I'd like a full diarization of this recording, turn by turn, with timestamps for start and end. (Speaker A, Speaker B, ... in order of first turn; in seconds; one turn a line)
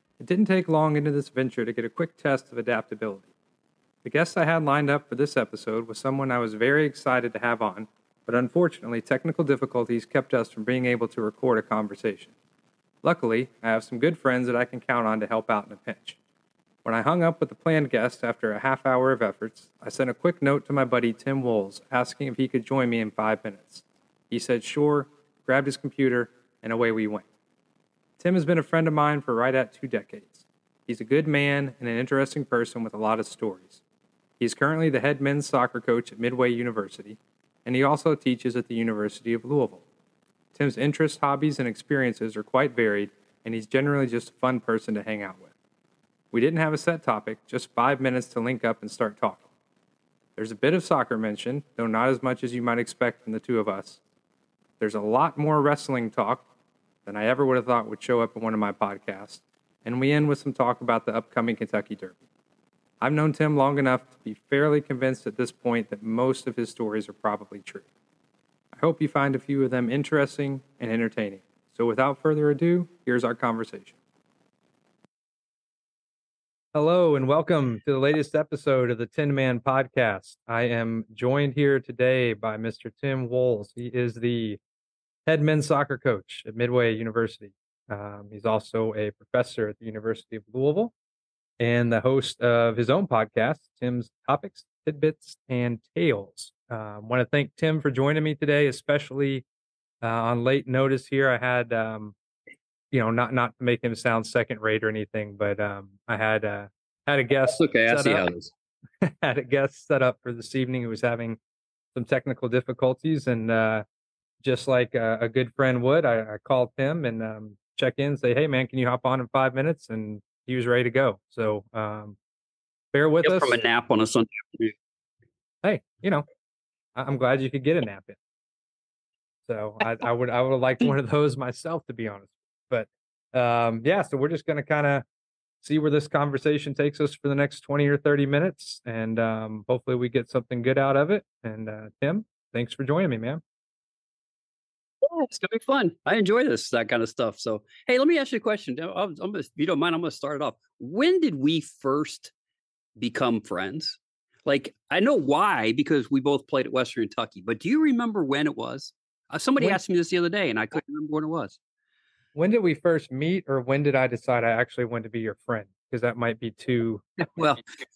Speaker A: 0.2-3.3
Speaker A: 4.0-12.3
Speaker A: 13.0-16.2
Speaker A: 16.8-27.3
Speaker A: 28.2-33.8
Speaker A: 34.4-39.8
Speaker A: 40.5-45.5
Speaker A: 46.3-49.4
Speaker A: 50.4-54.0
Speaker A: 54.8-56.4
Speaker A: 57.0-62.1
Speaker A: 63.0-67.9
Speaker A: 68.7-73.9
Speaker A: 76.7-84.6
Speaker A: 85.2-90.9
Speaker A: 91.6-99.4
Speaker A: 100.0-102.1
Speaker A: 102.9-108.3
Speaker B: 107.5-108.5
Speaker A: 109.0-111.4
Speaker A: 111.9-113.8
Speaker A: 114.4-122.2
Speaker A: 122.9-123.6
Speaker B: 123.2-124.7
Speaker A: 125.6-126.2
Speaker A: 126.9-128.2
Speaker A: 129.5-135.0
Speaker A: 135.6-143.4
Speaker B: 145.0-152.3
Speaker B: 153.0-161.6
Speaker A: 162.3-167.4
Speaker B: 167.2-167.6